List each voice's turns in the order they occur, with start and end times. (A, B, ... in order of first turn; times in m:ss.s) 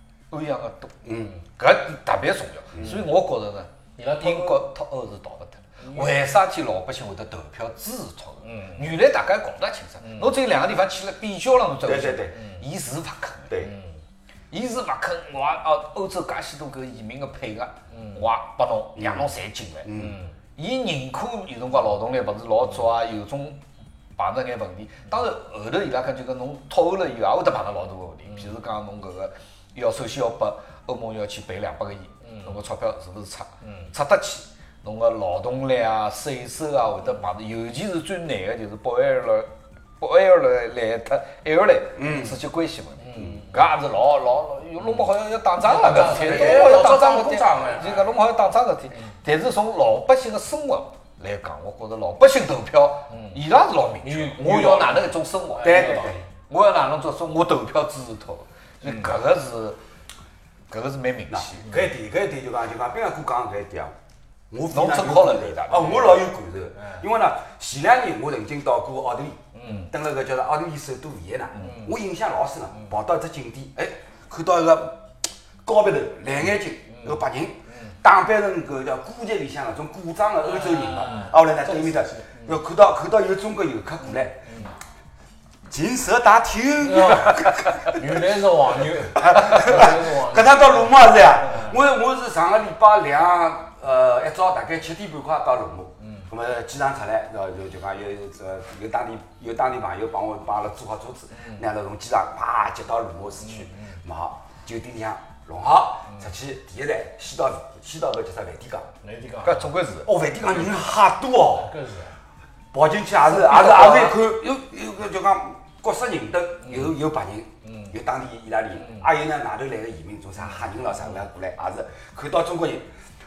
0:00.3-0:13.7 A
0:01.0-0:01.3 B
0:02.7-0:03.0 B
0:04.0-0:04.7 C
0:05.8-0:06.2 C
0:08.4-0:08.9 C
0:10.0-0:10.3 C
0:11.8-0:12.4 B
0:12.4-0:12.6 C
0:13.6-0:14.0 C
0:14.5-0:19.9 A
0:17.9-0:18.2 C
0:19.8-0:20.2 B
0:20.0-0:20.4 C
0:20.6-0:23.6 A
0:24.2-0:59.8 A
0:28.3-0:28.5 C
0:32.2-0:32.6 C
0:33.6-0:33.9 C
0:42.0-0:42.4 B
0:43.0-0:43.6 C
0:45.6-0:48.1 C
0:45.9-0:46.8 B
0:53.1-0:53.4 C
0:54.0-0:56.3 C
0:55.6-0:56.2 B
0:58.8-0:59.2 C
1:00.7-1:01.7 A
1:01.3-1:03.9 B
1:04.5-1:15.0 B
1:04.7-1:06.1 A
1:05.8-1:06.2 C
1:06.8-1:07.0 C
1:09.6-1:09.9 C
1:11.6-1:12.0 C
1:15.6-1:24.5 B
1:16.9-1:17.9 C
1:20.4-1:22.6 C
1:24.1-1:24.7 C
1:25.7-1:28.2 B
1:26.8-1:30.9 C
1:29.1-1:48.9 B
1:31.4-1:31.8 C
1:36.0-1:36.3 C
1:41.3-1:41.6 C
1:43.4-1:44.0 C
1:49.0-1:49.7 C
1:49.4-1:50.1 A
1:50.1-1:51.7 B
1:50.5-1:50.8 C
1:51.5-1:52.2 C
1:52.7-2:02.9 B
1:53.2-1:54.2 A
1:56.6-1:56.9 C
1:57.6-1:57.9 C
1:58.8-1:59.1 C